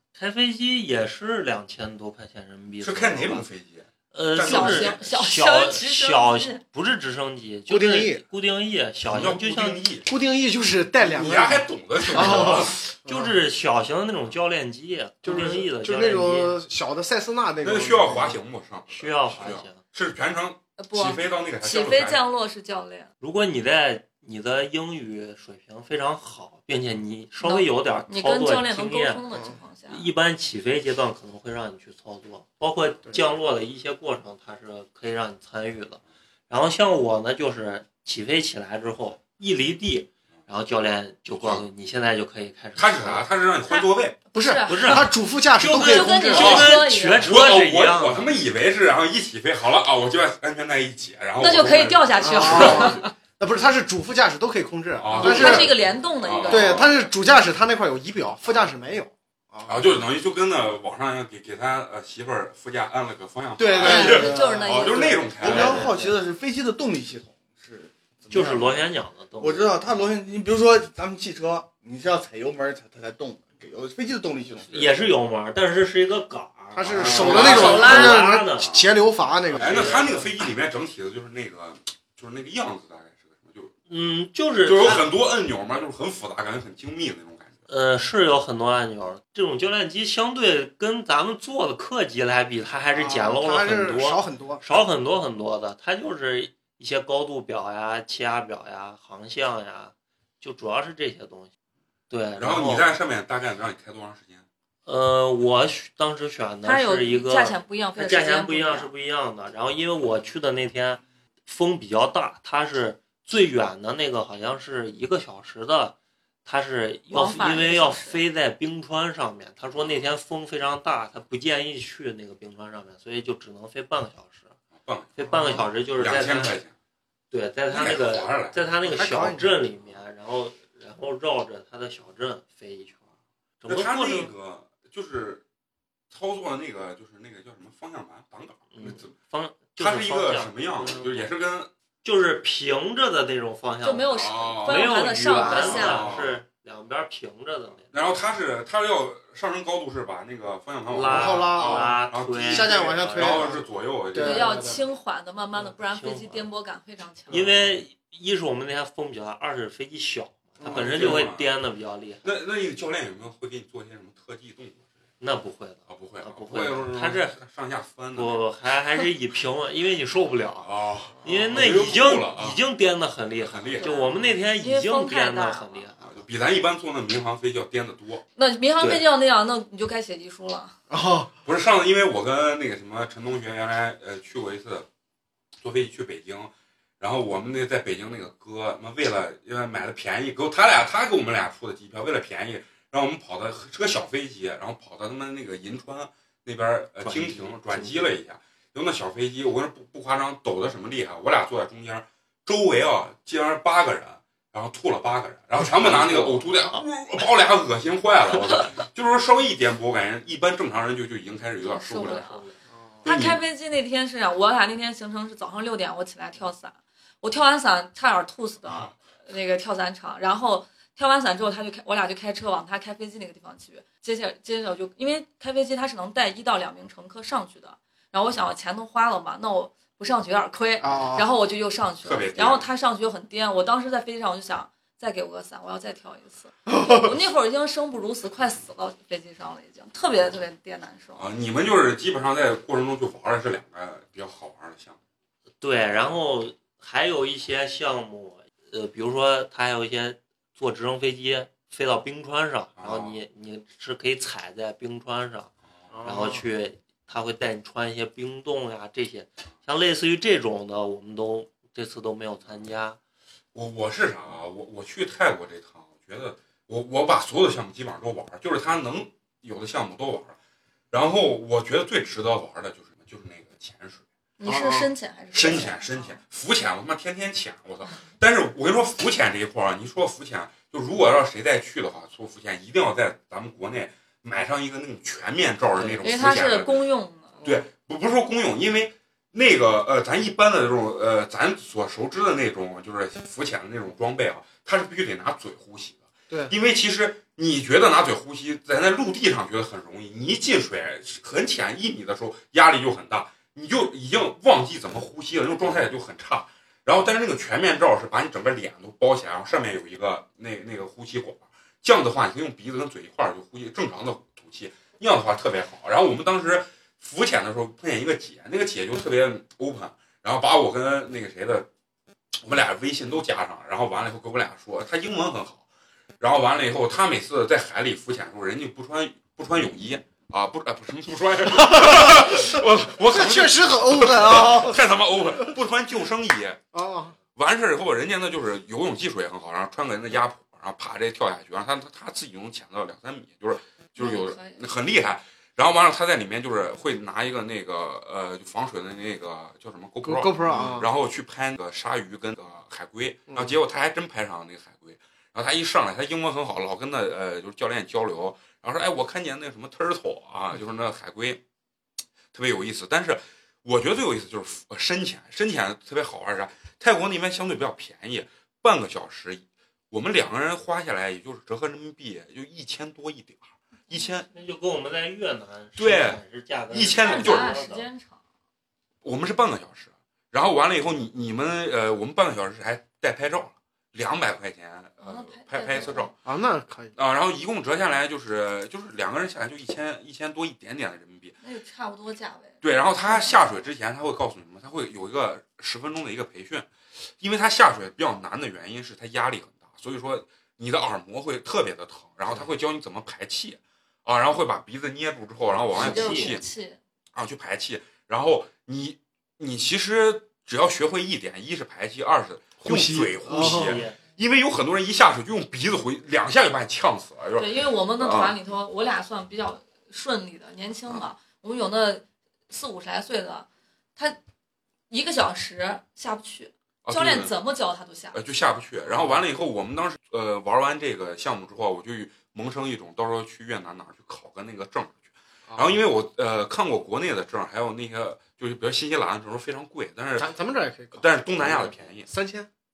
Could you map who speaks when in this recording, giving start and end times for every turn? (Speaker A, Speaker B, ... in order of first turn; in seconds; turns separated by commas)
Speaker A: 0.2-3.5, Speaker B: 2.8-5.0, Speaker A: 4.1-9.8, Speaker C: 4.4-6.6, Speaker D: 7.7-8.2, Speaker B: 9.1-10.1, Speaker D: 10.1-13.3, Speaker B: 11.0-12.9, Speaker A: 13.1-16.6, Speaker D: 15.2-18.4, Speaker B: 17.6-22.2, Speaker A: 18.9-19.8, Speaker C: 20.8-23.1, Speaker A: 23.2-29.2, Speaker C: 27.4-30.1, Speaker A: 29.9-43.2, Speaker B: 41.4-41.7, Speaker B: 42.8-44.2, Speaker C: 43.7-47.3, Speaker D: 44.4-46.6, Speaker A: 44.7-48.4, Speaker B: 46.3-53.0, Speaker C: 51.4-53.1, Speaker D: 52.2-55.8, Speaker B: 55.0-56.9, Speaker C: 55.1-56.9, Speaker D: 56.5-60.0, Speaker B: 59.6-65.8, Speaker D: 63.6-65.1, Speaker E: 63.8-68.9, Speaker C: 63.8-65.3, Speaker A: 65.4-66.2, Speaker A: 68.3-69.7, Speaker E: 69.4-75.0, Speaker A: 74.7-78.7, Speaker D: 76.8-80.1, Speaker B: 76.8-78.9, Speaker C: 77.5-78.1, Speaker A: 79.5-80.2, Speaker B: 79.6-83.7, Speaker A: 83.9-85.1, Speaker B: 84.6-87.6, Speaker A: 87.7-101.5, Speaker D: 92.9-94.6, Speaker A: 102.1-102.9, Speaker B: 102.4-104.5, Speaker A: 104.9-124.5, Speaker C: 106.7-108.9, Speaker C: 117.1-118.2, Speaker B: 119.8-120.0, Speaker B: 124.8-126.7, Speaker A: 125.2-126.6, Speaker A: 127.3-133.0, Speaker B: 127.7-128.7, Speaker D: 128.8-129.6, Speaker A: 133.6-134.3, Speaker B: 133.7-135.4, Speaker B: 136.1-139.1, Speaker A: 138.7-141.3, Speaker B: 139.8-141.7, Speaker A: 142.0-147.9, Speaker C: 143.8-146.1, Speaker B: 144.1-146.4, Speaker B: 147.9-154.8, Speaker A: 150.9-153.5, Speaker D: 151.1-151.9, Speaker D: 152.5-154.8, Speaker C: 154.2-157.7, Speaker A: 155.6-156.5, Speaker A: 157.3-162.3, Speaker D: 160.6-161.3, Speaker B: 160.6-161.5, Speaker B: 162.2-164.8, Speaker A: 165.2-167.4, Speaker B: 165.9-168.4, Speaker A: 168.2-176.1, Speaker B: 170.6-172.6, Speaker B: 173.4-174.3, Speaker C: 173.8-175.8, Speaker B: 176.0-178.2, Speaker C: 178.4-180.8, Speaker A: 178.8-179.1, Speaker D: 180.9-181.3, Speaker B: 181.4-184.9, Speaker B: 185.6-212.4, Speaker A: 197.0-198.2, Speaker A: 205.6-206.8, Speaker C: 211.6-212.4, Speaker A: 212.1-212.6, Speaker D: 212.7-213.1, Speaker C: 213.0-241.2, Speaker B: 213.1-213.4, Speaker D: 230.8-231.3, Speaker B: 232.0-232.7, Speaker D: 236.7-237.1, Speaker B: 241.2-245.0, Speaker A: 245.6-263.0, Speaker B: 252.8-253.2, Speaker D: 255.9-256.4, Speaker B: 263.5-270.4, Speaker B: 270.9-274.0, Speaker C: 274.4-276.1, Speaker D: 274.4-274.9, Speaker B: 275.3-286.7, Speaker A: 285.7-286.3, Speaker C: 286.0-287.4, Speaker B: 287.4-321.7, Speaker B: 322.4-325.6, Speaker B: 326.2-336.6, Speaker D: 331.5-335.6, Speaker D: 336.7-337.2, Speaker B: 337.4-361.4, Speaker C: 344.0-344.6, Speaker D: 350.0-350.9, Speaker D: 353.3-353.6, Speaker B: 362.3-374.3, Speaker A: 374.3-377.9, Speaker B: 375.8-377.5, Speaker C: 376.8-378.2, Speaker B: 379.0-386.1, Speaker C: 385.0-386.1, Speaker D: 386.2-386.9, Speaker B: 387.0-391.4, Speaker C: 391.4-393.4, Speaker B: 392.6-406.5, Speaker C: 405.7-406.8, Speaker A: 405.7-406.4, Speaker B: 407.1-418.3, Speaker D: 412.6-413.8, Speaker A: 413.4-414.0, Speaker C: 417.4-424.2, Speaker C: 424.9-428.2, Speaker B: 426.9-427.3, Speaker B: 428.1-440.3, Speaker D: 428.9-429.2, Speaker D: 435.5-435.8, Speaker D: 440.2-441.1, Speaker B: 440.9-442.1, Speaker A: 441.4-441.8, Speaker D: 442.1-442.5